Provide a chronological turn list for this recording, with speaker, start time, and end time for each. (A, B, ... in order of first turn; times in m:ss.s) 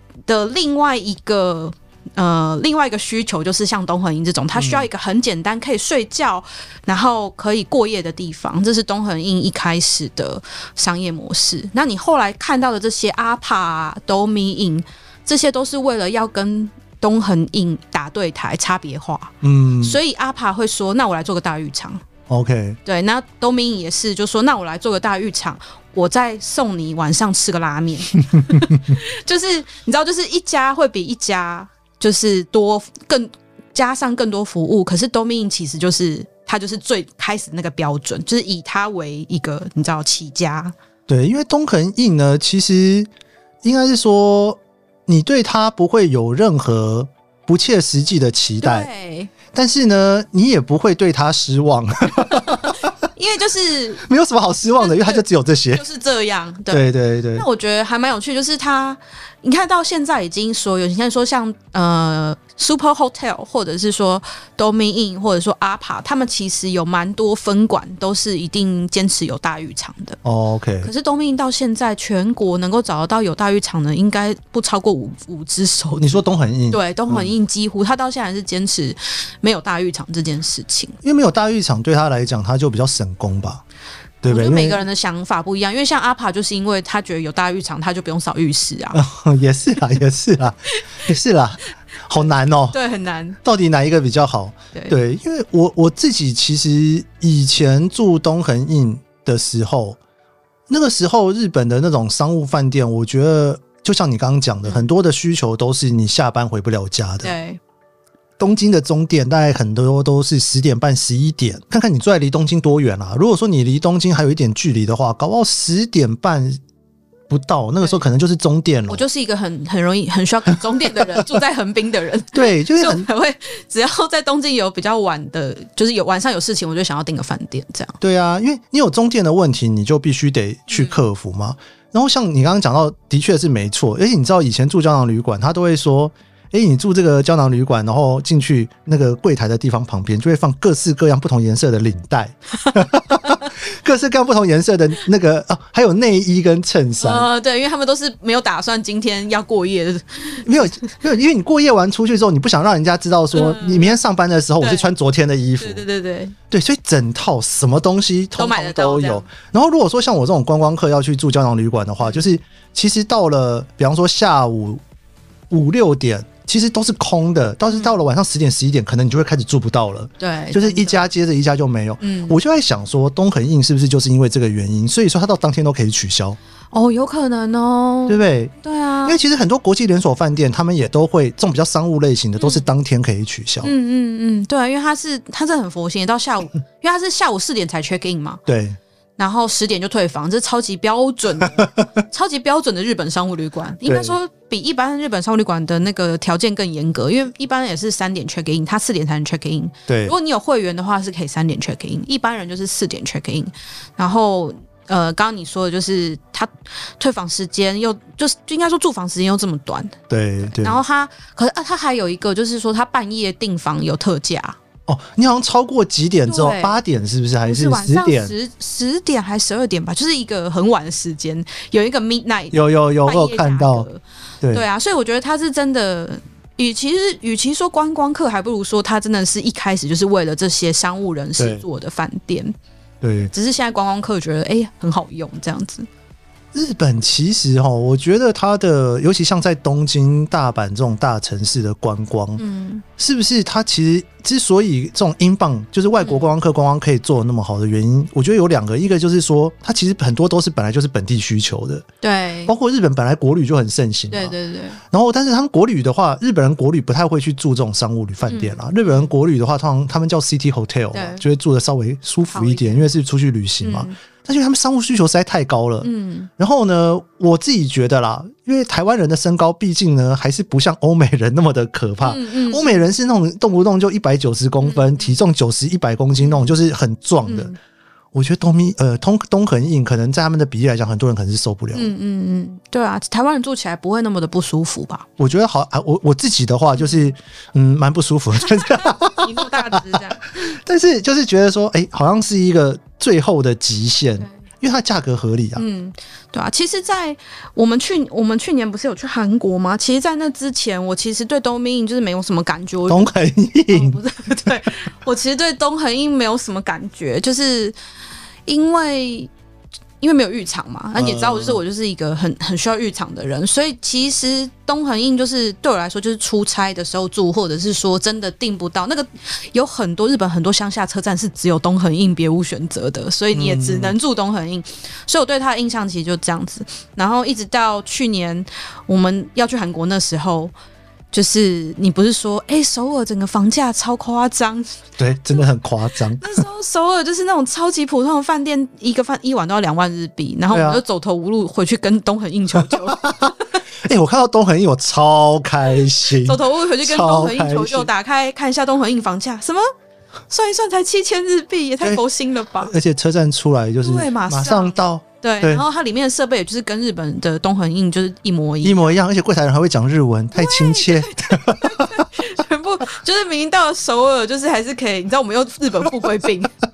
0:00.3-0:22.0 A
0:04.6-0:04.9 B
0:19.4-0:20.0 B
0:22.3-0:22.8 B
0:22.8-0:40.8 A
0:28.3-0:28.9 B
0:41.1-0:43.1 B
0:43.6-0:48.9 B
0:48.6-0:49.3 A
0:49.5-0:52.9 B
0:52.3-0:54.0 A
0:54.0-0:55.8 B
0:54.8-1:10.2 A
0:56.7-0:57.5 B
1:10.2-1:10.9 B
1:10.8-1:21.0 A
1:16.0-1:17.3 B
1:21.0-1:23.6 B
1:24.2-1:24.8 B
1:24.3-1:29.0 A
1:28.9-1:32.8 B
1:32.7-1:33.4 A
1:33.4-1:40.0 B
1:40.7-1:47.3 B
1:44.6-1:44.9 A
1:47.2-1:47.6 A
1:48.4-1:56.6 B
1:57.3-1:59.0 B
1:58.9-2:08.0 A
2:02.3-2:03.1 B
2:08.0-2:27.3 B
2:10.7-2:11.0 A
2:27.0-2:30.7 A
2:30.4-2:35.8 B
2:33.3-2:34.0 A
2:34.6-2:34.9 A
2:35.6-2:36.4 A
2:36.5-2:44.8 B
2:38.4-2:39.3 A
2:42.0-2:42.3 A
2:45.5-2:56.4 B
2:50.2-2:51.1 A
2:52.0-2:52.4 A
2:56.7-2:59.2 A
2:58.1-2:58.5 B
2:59.0-3:03.7 B
3:02.4-3:02.7 A
3:03.6-3:08.4 A
3:08.5-3:08.8 B
3:09.2-3:34.6 A
3:11.5-3:12.0 B
3:13.9-3:14.2 B
3:19.9-3:20.1 B
3:30.1-3:30.8 B
3:34.9-3:38.3 B
3:36.3-3:36.8 A
3:37.4-3:52.6 A
3:42.5-3:43.9 B
3:51.4-3:51.6 B
3:53.0-3:53.3 B
3:53.3-3:55.9 A
3:56.5-4:02.4 B
4:02.4-4:02.8 A
4:03.0-4:11.9 B
4:06.0-4:06.3 A
4:12.0-4:12.5 A
4:12.5-4:14.3 B
4:14.1-4:14.8 A
4:14.9-4:37.5 B
4:18.3-4:19.1 A
4:20.9-4:21.2 A
4:22.3-4:22.9 A
4:23.6-4:24.0 A
4:25.8-4:26.3 A
4:32.0-4:32.9 A
4:34.6-4:35.2 A
4:36.2-4:36.6 A
4:37.2-4:37.6 A
4:38.1-4:41.9 B
4:41.7-4:45.1 A
4:45.2-4:55.6 B
4:46.8-4:47.1 A
4:48.4-4:50.3 A
4:55.6-5:03.1 A
5:02.9-5:04.5 B
5:03.7-5:07.8 A
5:08.5-5:09.3 A
5:10.0-5:30.5 A
5:11.0-5:11.6 B
5:23.3-5:24.0 B
5:31.1-5:35.5 A
5:35.0-5:36.4 B
5:36.2-5:43.3 A
5:40.5-5:40.8 B
5:42.8-5:47.9 B
5:46.1-5:49.6 A
5:50.3-5:52.7 A
5:52.6-5:55.6 B
5:53.8-5:58.9 A
5:58.6-6:02.1 B
6:00.4-6:06.5 A